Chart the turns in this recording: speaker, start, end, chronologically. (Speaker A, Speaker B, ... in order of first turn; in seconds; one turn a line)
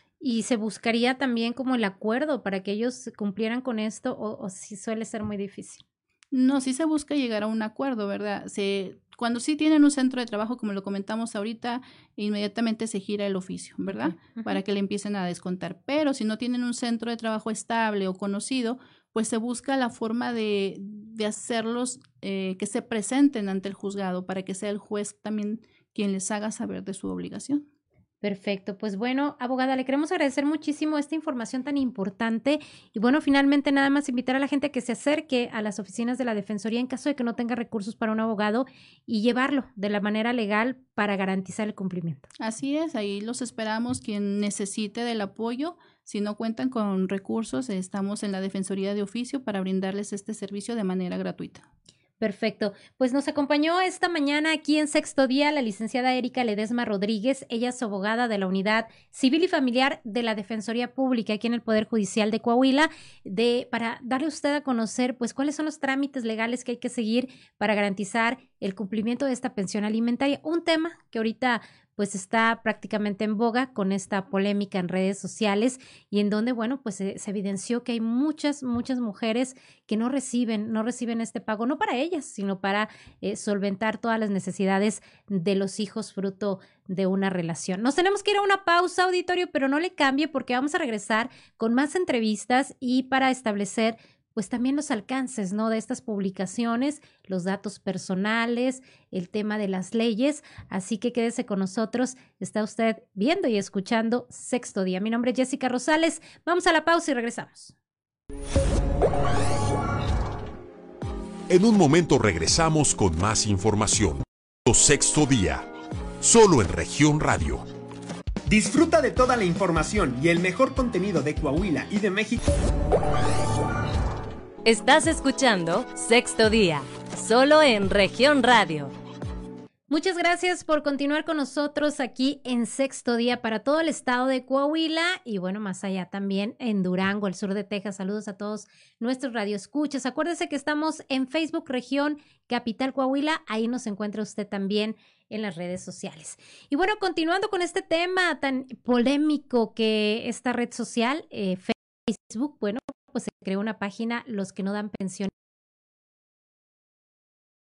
Speaker A: 0.2-5.8
Speaker B: 6.3-27.6
Speaker A: 13.9-14.6
Speaker A: 28.2-42.3
Speaker B: 42.4-51.7
Speaker A: 52.2-107.7
Speaker C: 111.5-115.7
Speaker C: 116.2-117.7
Speaker D: 118.5-122.4
Speaker E: 124.7-128.9
Speaker A: 129.9-155.3